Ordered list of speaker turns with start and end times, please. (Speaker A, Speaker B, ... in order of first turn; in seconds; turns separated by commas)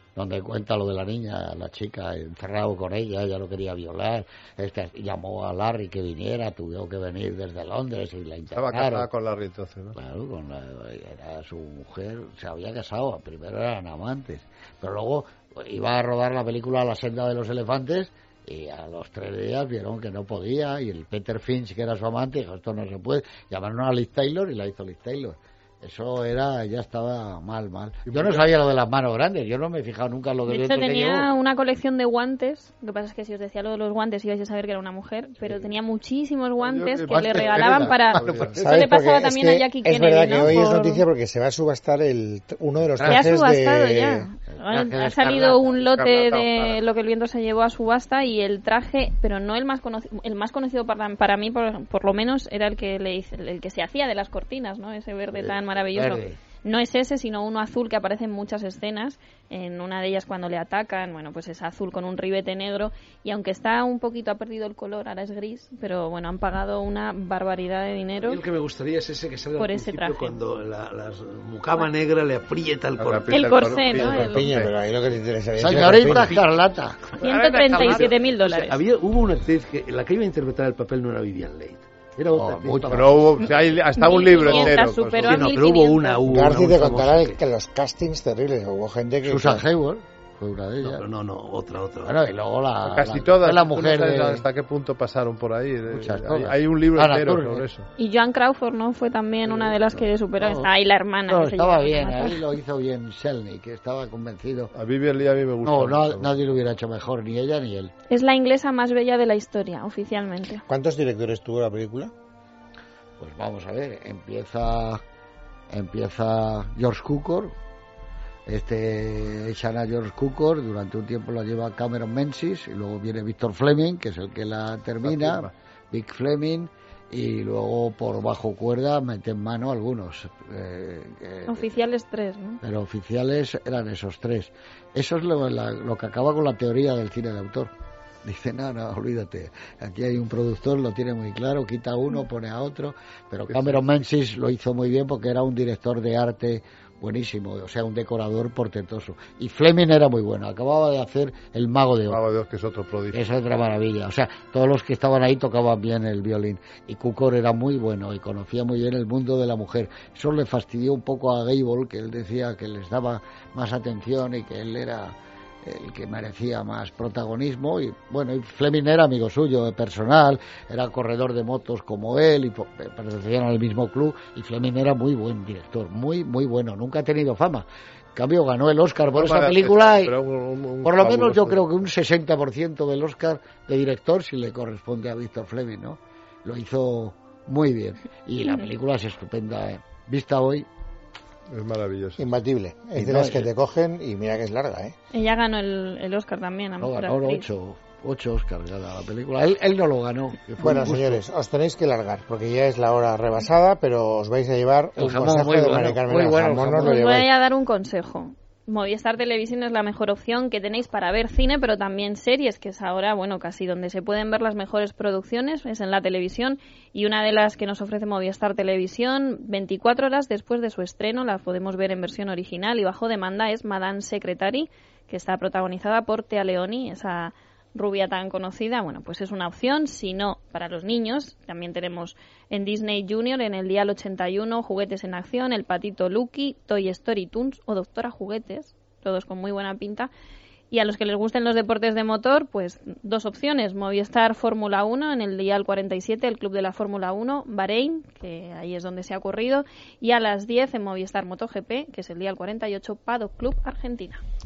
Speaker A: 0.1-9.1, Speaker B: 8.5-9.9, Speaker A: 9.9-31.3, Speaker B: 28.1-28.5, Speaker C: 30.5-41.0, Speaker B: 36.6-38.6, Speaker A: 37.1-38.3, Speaker D: 38.5-44.3, Speaker A: 42.9-43.3, Speaker C: 43.0-68.4, Speaker A: 44.5-45.8, Speaker B: 45.6-46.8, Speaker A: 55.3-56.4, Speaker E: 68.2-74.1, Speaker C: 69.6-70.4, Speaker B: 73.0-74.7, Speaker C: 73.3-74.5, Speaker D: 74.0-76.4, Speaker A: 75.6-77.0, Speaker C: 77.2-78.8, Speaker B: 77.2-78.2, Speaker E: 78.3-83.1, Speaker A: 82.2-83.2, Speaker B: 82.9-85.5, Speaker C: 83.4-86.2, Speaker E: 85.2-87.4, Speaker D: 86.3-89.7, Speaker A: 89.2-91.0, Speaker E: 90.8-92.1, Speaker A: 92.0-94.4, Speaker B: 92.8-97.9, Speaker A: 95.9-97.7, Speaker C: 98.0-102.4, Speaker A: 99.7-100.7, Speaker A: 101.3-104.7, Speaker B: 104.7-106.6, Speaker A: 105.6-107.9, Speaker C: 108.1-110.6, Speaker D: 110.7-112.1, Speaker A: 113.2-115.0, Speaker A: 115.7-117.5, Speaker A: 118.5-131.7, Speaker B: 125.0-125.5, Speaker C: 131.5-132.6, Speaker A: 132.6-137.7, Speaker A: 138.2-152.2, Speaker B: 143.5-143.8, Speaker B: 152.1-153.3, Speaker A: 153.1-180.1, Speaker B: 179.1-181.7, Speaker A: 180.8-190.7, Speaker B: 191.5-192.2, Speaker D: 192.2-194.9, Speaker A: 192.9-193.5, Speaker C: 195.1-197.4, Speaker A: 196.8-201.2, Speaker D: 200.6-207.3, Speaker A: 205.0-207.0, Speaker C: 206.8-240.1, Speaker C: 240.7-254.2